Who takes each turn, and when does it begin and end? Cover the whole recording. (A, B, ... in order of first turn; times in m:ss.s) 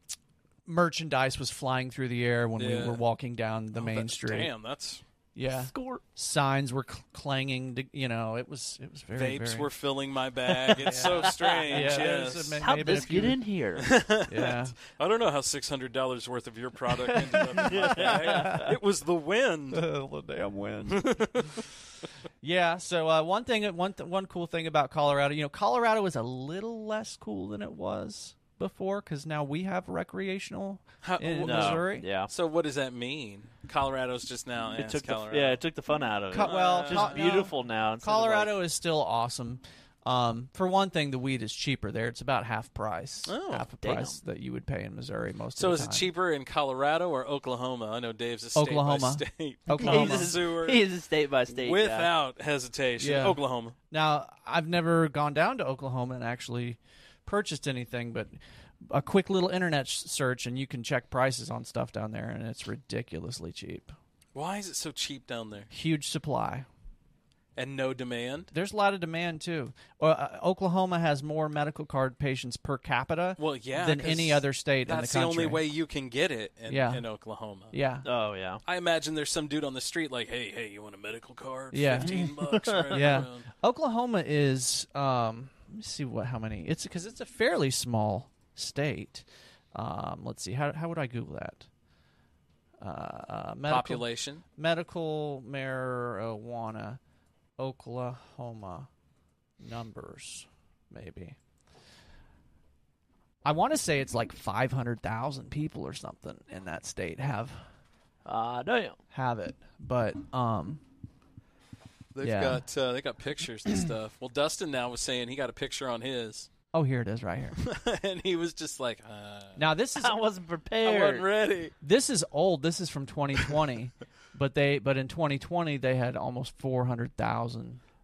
0:00.7-0:04.5 A
0:02.6-0:03.0 B
0:03.7-0:05.0 B
0:05.4-0:09.7 A
0:05.6-0:06.0 C
0:09.2-0:12.7 B
0:10.7-0:12.0 C
0:10.8-0:13.4 A
0:12.6-0:14.0 C
0:13.8-0:19.8 B
0:14.3-0:14.8 A
0:17.2-0:18.7 C
0:17.4-0:18.6 A
0:19.7-0:21.3 A
0:20.9-0:21.6 B
0:22.4-0:32.1 A
0:31.0-0:35.6 B
0:31.4-0:32.3 C
0:34.8-0:38.5 C
0:36.3-0:46.1 A
0:36.3-0:37.5 B
0:43.3-0:43.7 B
0:43.8-0:44.2 C
0:45.6-0:50.9 B
0:48.6-0:50.3 A
0:49.7-0:52.1 C
0:51.5-0:53.8 B
0:53.0-1:03.9 A
1:04.3-1:05.7 B
1:05.7-1:06.7 A
1:07.6-1:08.5 B
1:08.5-1:15.6 A
1:13.4-1:17.8 B
1:16.7-1:17.0 A
1:17.7-1:18.1 A
1:18.0-1:18.6 C
1:18.6-1:23.4 B
1:21.7-1:22.2 A
1:22.0-1:22.9 C
1:22.9-1:31.7 A
1:32.8-1:34.0 A
1:33.7-1:34.4 B
1:34.6-1:37.0 A
1:37.6-1:38.9 A
1:39.6-1:41.4 A
1:43.4-1:47.7 A
1:48.3-1:49.0 C
1:49.1-1:50.8 A
1:52.1-1:56.5 B
1:52.2-1:52.6 A
1:56.7-1:57.6 A
1:57.6-1:59.7 B
1:59.6-2:00.2 A
2:00.0-2:01.3 C
2:00.8-2:01.7 B
2:01.8-2:07.8 A